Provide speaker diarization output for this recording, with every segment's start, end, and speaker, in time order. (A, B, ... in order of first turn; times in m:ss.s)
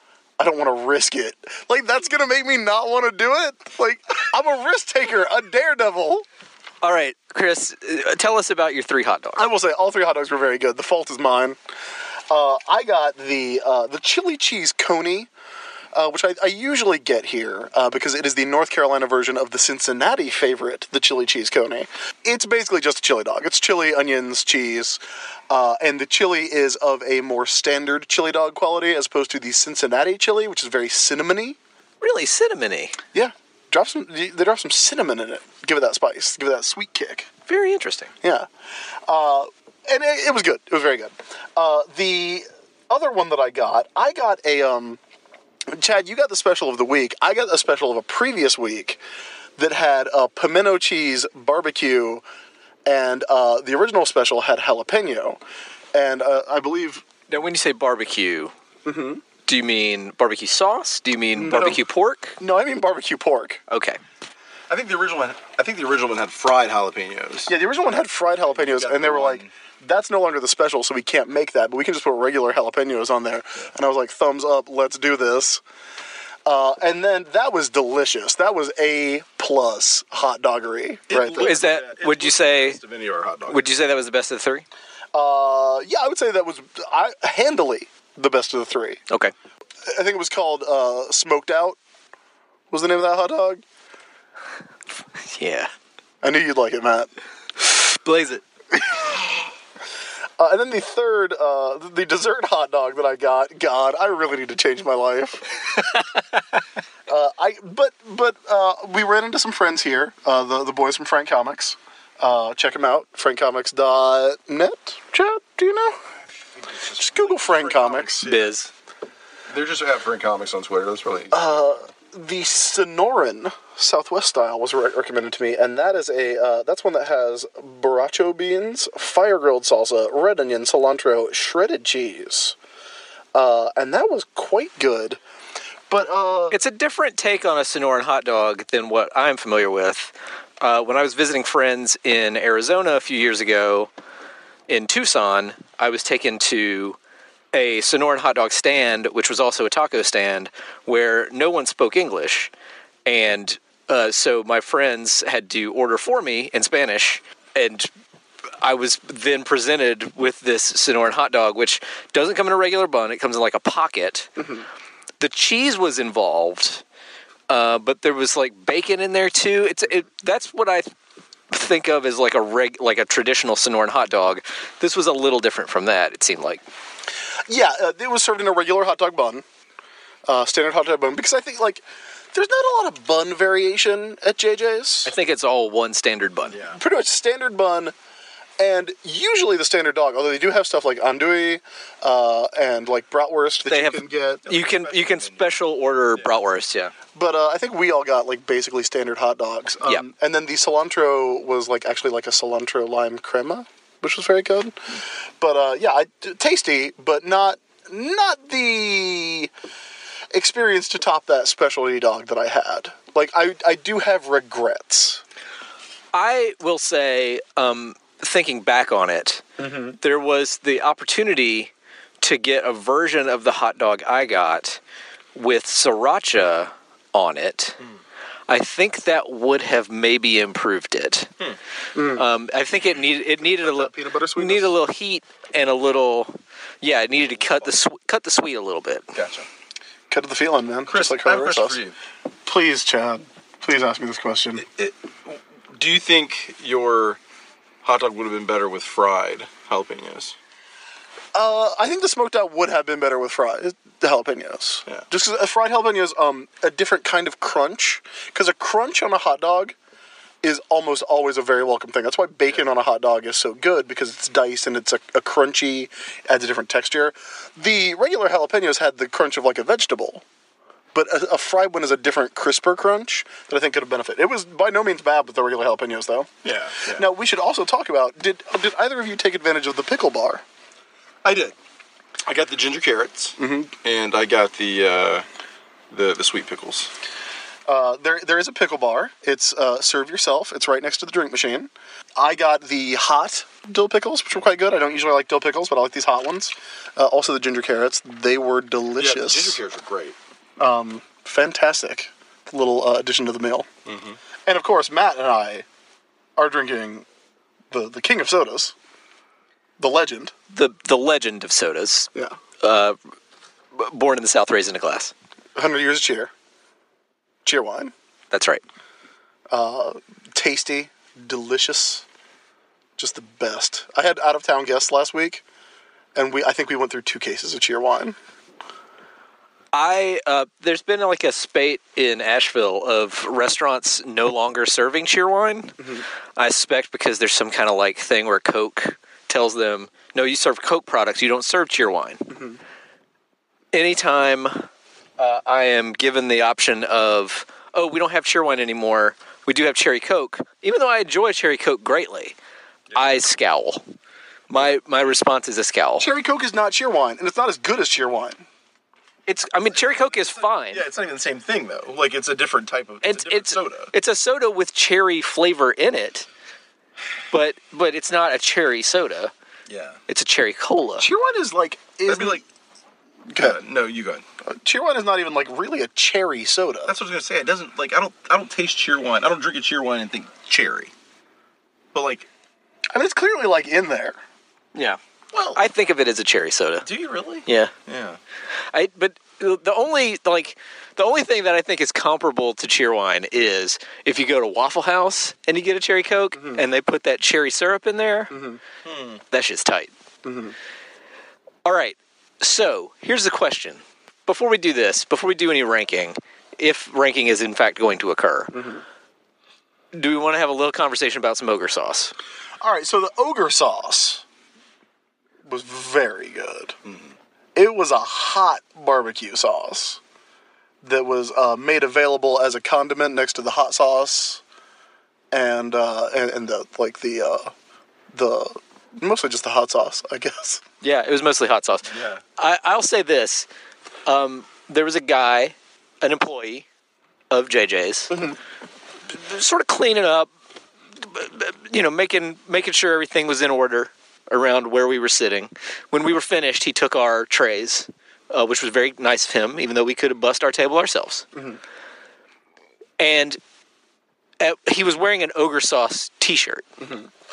0:00.4-0:06.3 A
0:06.8-0:09.5 B
0:09.4-0:11.6 A
0:12.3-0:15.3 A
0:15.9-0:31.6 A
0:32.0-0:33.0 B
0:33.1-0:37.3 A
0:37.5-0:38.1 B
0:38.2-0:38.5 A
0:39.1-0:45.0 A
0:45.7-0:49.0 A
0:49.6-0:52.2 A
0:52.9-0:55.4 A
0:55.9-0:57.0 A
0:57.3-0:58.5 B
0:58.8-0:59.2 A
0:59.5-1:02.4 B
1:01.4-1:01.8 A
1:02.4-1:03.6 A
1:03.7-1:04.0 B
1:04.7-1:07.5 C
1:07.5-1:15.6 A
1:08.6-1:09.5 C
1:16.5-1:21.6 A
1:21.1-1:23.6 C
1:21.4-1:22.8 B
1:23.5-1:24.6 B
1:25.1-1:29.0 A
1:29.8-1:31.8 A
1:32.7-1:33.6 A
1:35.2-1:35.7 B
1:36.2-1:37.1 A
1:37.6-1:38.4 B
1:38.7-1:39.3 A
1:40.4-1:45.5 A
1:47.1-1:56.0 A
1:56.6-1:58.5 C
1:57.0-1:58.2 A
1:58.2-1:58.7 B
1:59.5-2:01.5 C
2:01.3-2:12.6 A
2:13.3-2:15.2 A
2:15.9-2:16.6 A
2:16.5-2:23.9 B
2:24.7-2:27.0 B
2:27.5-2:32.5 B
2:33.1-2:37.9 B
2:38.6-2:44.4 B
2:44.4-2:44.6 A
2:45.2-2:46.8 B
2:47.5-2:50.9 B
2:51.5-2:56.6 B
2:57.5-2:59.5 A
3:00.3-3:05.1 A
3:05.0-3:06.6 B
3:06.5-3:06.8 C
3:06.7-3:08.0 A
3:08.6-3:14.5 A
3:13.7-3:16.9 B
3:14.5-3:15.6 C
3:17.2-3:29.5 A
3:30.3-3:35.2 A
3:36.1-3:39.4 B
3:39.6-3:40.0 A
3:40.0-3:44.8 B
3:45.4-3:47.8 B
3:48.5-3:51.3 B
3:52.0-3:52.2 A
3:52.1-3:59.1 B
3:53.4-3:54.8 A
3:57.2-3:57.8 C
3:59.1-3:59.5 C
4:00.1-4:01.8 A
4:00.9-4:02.0 C
4:02.5-4:04.7 A
4:04.6-4:07.2 C
4:07.8-4:10.4 C
4:11.3-4:19.8 A
4:20.4-4:30.2 A
4:30.9-4:36.3 A
4:36.4-4:37.0 C
4:36.9-4:40.4 A
4:41.2-4:41.5 C
4:42.3-4:45.2 C
4:43.4-4:43.7 A
4:45.9-4:46.9 C
4:47.7-4:59.6 A
4:59.0-5:00.2 C
5:00.6-5:03.7 A
5:03.9-5:04.2 C
5:04.5-5:05.7 A
5:06.4-5:07.1 A
5:07.7-5:08.7 A
5:09.8-5:10.3 A
5:10.5-5:12.1 B
5:12.6-5:13.0 B
5:13.7-5:15.1 B
5:15.6-5:16.3 A
5:17.4-5:17.9 A
5:18.3-5:18.6 B
5:19.5-5:22.0 A
5:23.0-5:25.4 A
5:26.2-5:28.2 A
5:29.7-5:35.8 B
5:35.8-5:36.0 A
5:36.4-5:42.3 B
5:42.3-5:42.6 A
5:43.7-5:52.4 B
5:53.0-5:53.8 B
5:54.5-5:56.1 B
5:54.5-5:55.0 C
5:56.0-5:58.4 A
5:59.3-6:00.8 B
5:59.6-6:03.9 C
6:03.0-6:06.3 B
6:07.3-6:09.3 B
6:09.7-6:10.0 C
6:10.1-6:11.1 B
6:11.0-6:12.4 A
6:12.1-6:12.4 C
6:13.3-6:14.2 C
6:14.4-6:16.9 A
6:16.9-6:20.9 C
6:21.9-6:22.3 C
6:22.9-6:24.2 A
6:24.8-6:25.6 C
6:25.6-6:26.9 B
6:26.8-6:28.2 C
6:27.5-6:27.7 B
6:28.7-6:38.4 B
6:36.4-6:36.6 A
6:38.3-6:38.6 A
6:38.8-6:39.2 C
6:39.3-6:39.9 B
6:40.2-6:40.6 A
6:41.6-6:48.5 B
6:48.5-6:48.8 A
6:49.9-6:52.1 B
6:52.6-6:54.2 A
6:55.4-6:56.8 A
6:56.9-6:57.1 C
6:57.6-7:00.0 A
7:00.8-7:04.4 A
7:05.3-7:07.5 A
7:08.1-7:10.6 A
7:10.8-7:13.5 B
7:11.9-7:12.2 C
7:14.1-7:16.7 B
7:17.3-7:18.3 B
7:18.1-7:18.4 A
7:19.1-7:20.3 B
7:21.0-7:31.2 B
7:31.4-7:31.6 A
7:33.0-7:33.4 B
7:34.4-7:36.6 B
7:36.8-7:37.1 A